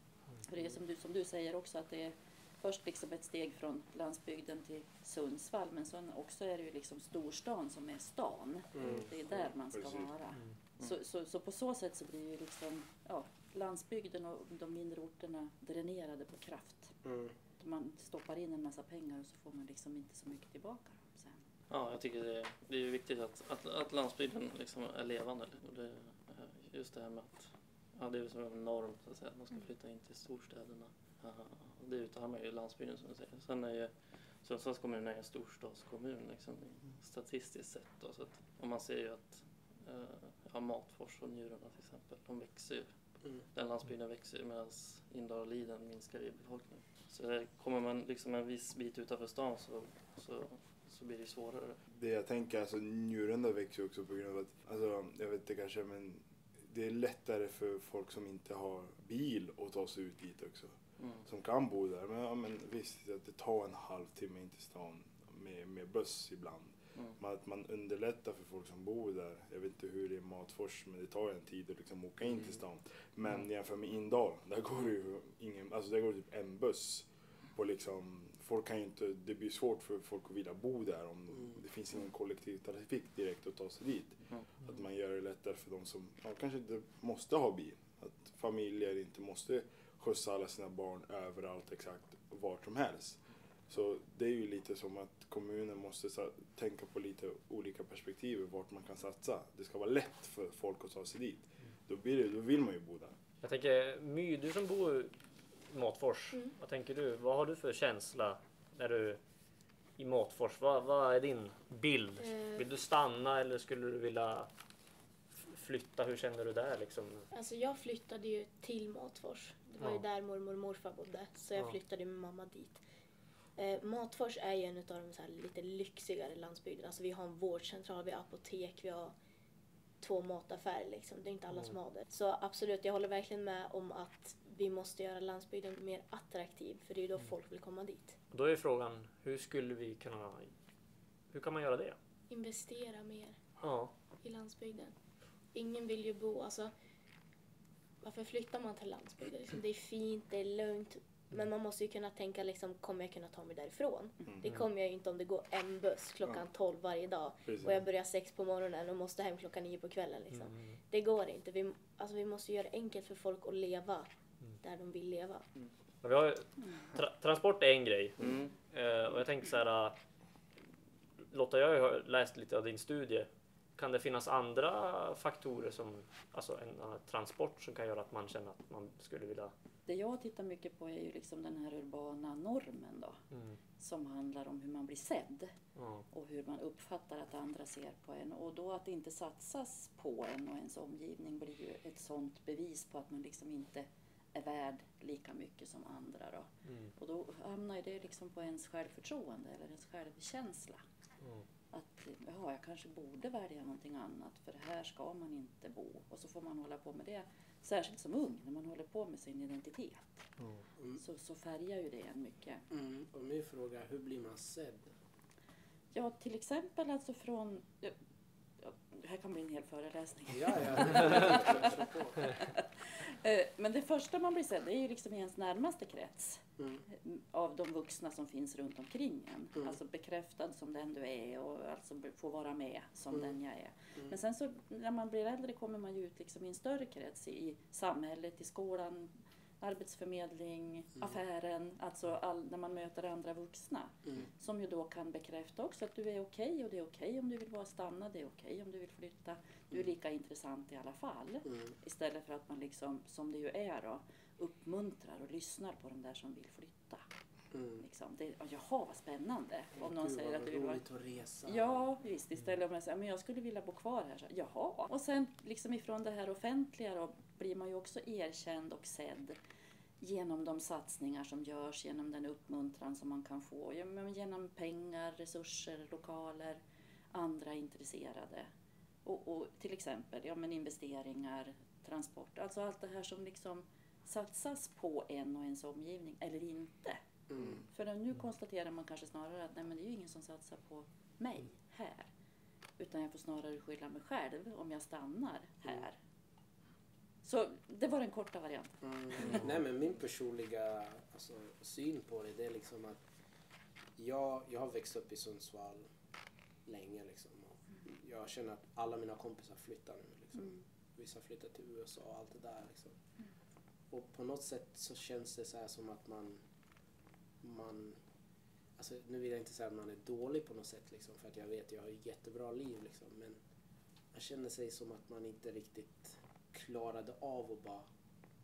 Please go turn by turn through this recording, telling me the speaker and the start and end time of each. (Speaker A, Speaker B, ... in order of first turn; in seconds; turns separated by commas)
Speaker A: 0.4-16.9, Speaker B: 8.8-9.0, Speaker C: 9.7-10.1, Speaker B: 17.0-17.3, Speaker A: 17.6-21.4, Speaker D: 21.7-51.8, Speaker C: 51.9-103.1, Speaker D: 61.0-61.2, Speaker E: 103.4-109.2, Speaker F: 106.3-106.6, Speaker E: 110.0-114.5, Speaker F: 112.2-112.7, Speaker E: 115.4-117.3, Speaker F: 117.3-122.8, Speaker F: 123.5-129.1, Speaker F: 130.0-138.2, Speaker E: 138.3-140.5, Speaker E: 141.3-142.0, Speaker F: 142.3-143.5, Speaker E: 143.6-143.9, Speaker F: 144.2-144.9, Speaker F: 145.5-146.7, Speaker F: 148.0-164.1, Speaker C: 157.5-157.8, Speaker E: 160.3-160.8, Speaker F: 164.6-165.4, Speaker E: 166.0-170.0, Speaker D: 168.2-168.5, Speaker E: 171.3-179.5, Speaker A: 179.8-183.2, Speaker E: 183.3-183.6, Speaker A: 183.8-185.5, Speaker E: 185.8-186.0, Speaker A: 186.1-200.8, Speaker E: 196.6-196.9, Speaker A: 201.7-210.3, Speaker A: 211.0-212.7, Speaker B: 212.7-214.9, Speaker A: 215.9-217.9, Speaker A: 218.6-257.0, Speaker B: 220.3-222.3, Speaker B: 226.6-226.8, Speaker B: 257.5-257.8, Speaker A: 257.8-260.8, Speaker B: 259.8-261.8, Speaker A: 261.5-269.4, Speaker A: 270.0-278.5, Speaker A: 279.0-287.0, Speaker B: 287.3-287.6, Speaker A: 287.7-292.1, Speaker A: 292.8-296.0, Speaker A: 297.2-299.4, Speaker B: 298.8-303.0, Speaker B: 304.0-305.9, Speaker B: 306.6-312.9, Speaker B: 313.9-316.4, Speaker B: 317.4-318.0, Speaker B: 318.8-323.4, Speaker B: 324.1-327.9